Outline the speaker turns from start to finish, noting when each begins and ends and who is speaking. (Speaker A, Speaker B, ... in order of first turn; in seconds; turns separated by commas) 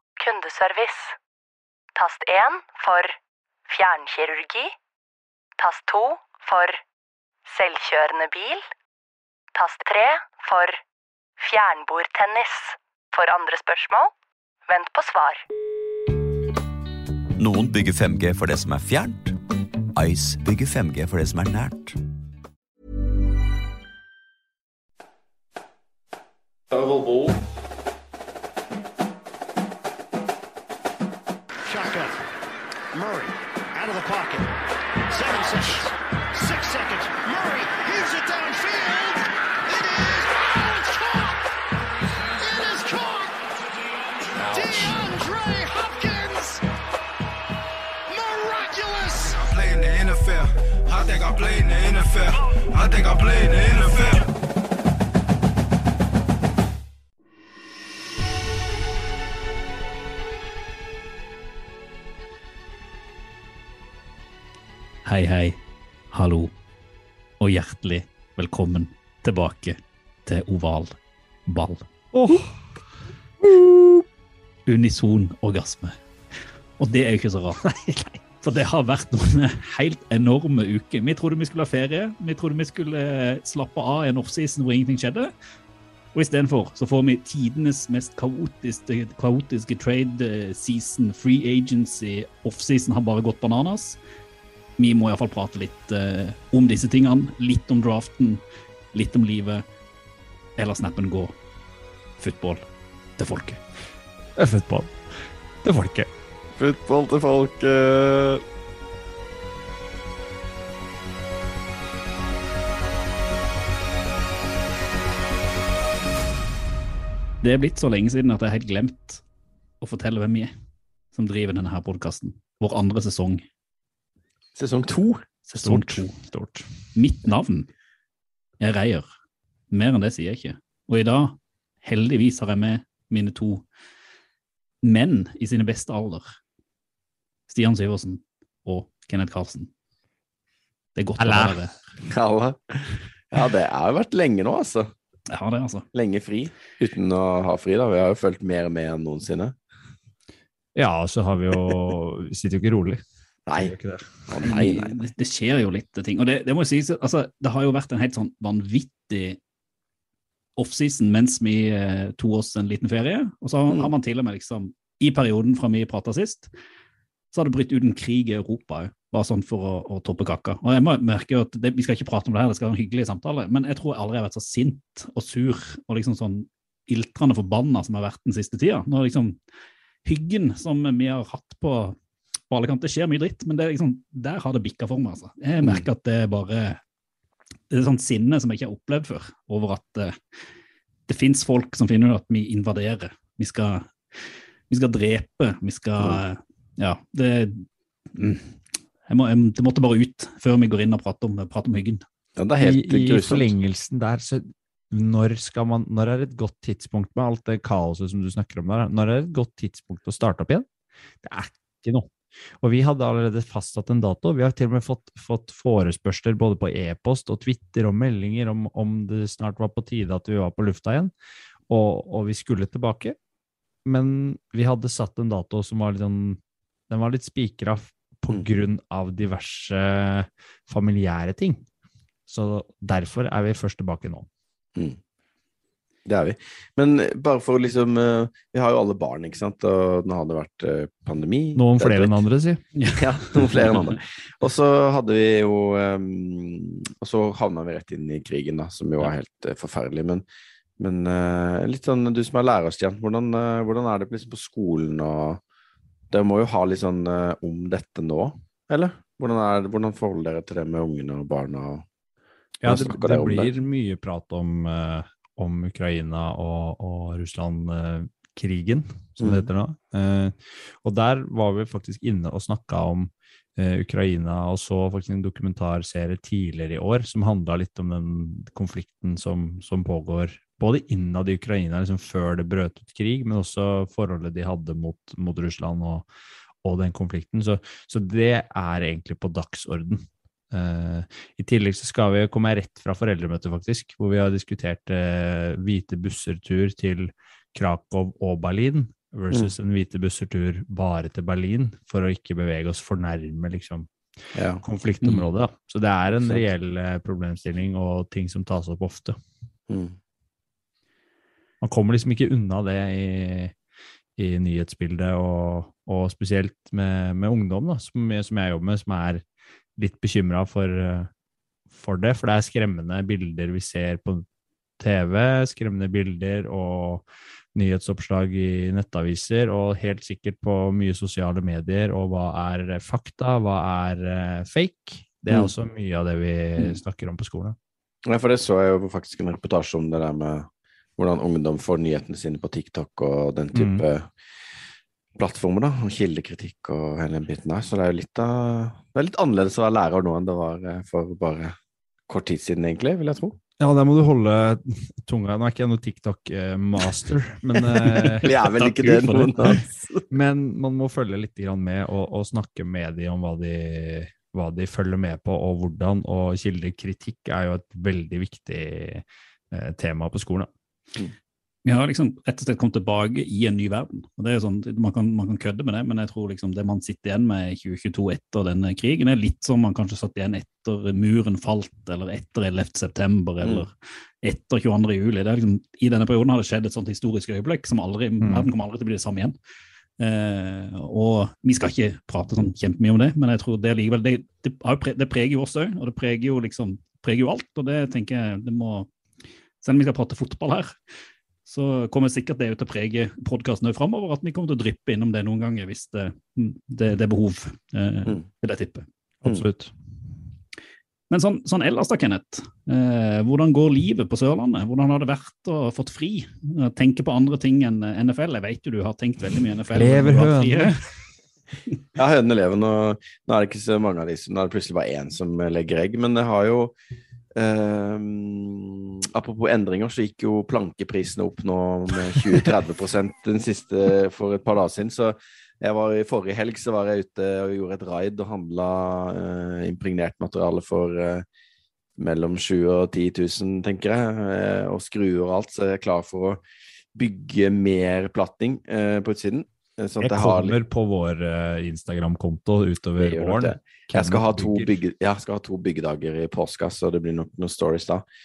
Speaker A: 0.2-1.1, Speaker A: 1.9-3.2, Speaker A: 3.7-4.8, Speaker A: 5.6-6.8, Speaker A: 7.5-8.7, Speaker A: 9.5-10.8, Speaker A: 11.4-14.1, Speaker A: 14.7-15.4, Speaker B: 17.4-19.4, Speaker B: 19.9-22.0, Speaker C: 26.7-27.4, Speaker D: 31.6-32.2, Speaker D: 32.9-34.5, Speaker D: 35.1-41.4, Speaker D: 42.4-43.3, Speaker D: 44.5-46.6, Speaker D: 48.1-49.4, Speaker E: 49.4-54.3, Speaker F: 65.0-65.6, Speaker F: 66.1-66.5, Speaker F: 67.4-70.9, Speaker F: 71.5-71.8, Speaker G: 72.1-72.5, Speaker F: 74.7-76.0, Speaker F: 76.8-77.7, Speaker G: 77.7-78.1, Speaker F: 78.4-85.3, Speaker F: 86.1-94.0, Speaker F: 94.8-98.4, Speaker F: 98.9-99.6, Speaker F: 100.6-101.3, Speaker F: 102.2-102.6, Speaker F: 103.2-103.6, Speaker G: 104.4-105.0, Speaker G: 105.6-106.1, Speaker C: 106.5-108.4, Speaker F: 117.4-119.2, Speaker F: 119.8-120.5, Speaker F: 121.1-123.4, Speaker C: 124.5-125.2, Speaker F: 125.5-126.2, Speaker G: 125.5-126.7, Speaker F: 126.9-127.7, Speaker F: 128.6-129.1, Speaker F: 129.7-133.6, Speaker F: 134.8-136.3, Speaker F: 137.5-139.7, Speaker F: 140.9-141.8, Speaker G: 141.2-141.6, Speaker C: 142.0-144.9, Speaker F: 145.3-145.8, Speaker C: 145.9-149.6, Speaker G: 150.8-153.0, Speaker C: 153.5-153.7, Speaker G: 153.6-154.2, Speaker C: 154.3-155.0, Speaker F: 154.4-159.4, Speaker F: 160.6-166.5, Speaker F: 167.3-179.4, Speaker F: 180.0-181.9, Speaker F: 182.5-186.8, Speaker C: 185.6-185.9, Speaker F: 187.7-190.2, Speaker F: 191.1-198.6, Speaker F: 199.1-202.0, Speaker C: 202.4-203.5, Speaker G: 202.6-210.7, Speaker G: 211.2-221.1, Speaker G: 221.7-223.2, Speaker G: 223.8-231.6, Speaker G: 232.3-234.3, Speaker C: 236.1-242.2, Speaker G: 241.6-242.6, Speaker F: 242.8-243.9, Speaker C: 242.9-250.2, Speaker C: 250.8-255.4, Speaker C: 256.1-261.9, Speaker G: 262.6-286.0, Speaker C: 262.6-263.5, Speaker C: 269.2-269.5, Speaker G: 286.6-303.9, Speaker C: 304.3-304.6, Speaker G: 304.6-309.2, Speaker C: 309.7-310.0, Speaker G: 311.6-313.5, Speaker G: 314.2-319.2, Speaker G: 319.8-321.1, Speaker G: 321.7-324.2, Speaker G: 324.8-337.6, Speaker C: 338.1-344.1, Speaker G: 343.5-343.8, Speaker C: 345.1-351.6, Speaker C: 352.1-353.4, Speaker G: 353.6-358.3, Speaker C: 357.8-360.0, Speaker F: 358.4-359.6, Speaker G: 360.1-370.5, Speaker F: 371.6-389.4, Speaker C: 383.4-383.6, Speaker G: 388.2-388.5, Speaker F: 390.0-398.9, Speaker F: 399.6-400.8, Speaker F: 401.4-408.9, Speaker G: 409.2-409.7, Speaker F: 411.1-420.9, Speaker G: 419.7-420.8, Speaker C: 421.9-426.7, Speaker C: 427.3-441.2, Speaker C: 442.0-446.4, Speaker C: 446.9-450.6, Speaker G: 450.0-454.8, Speaker C: 453.0-458.0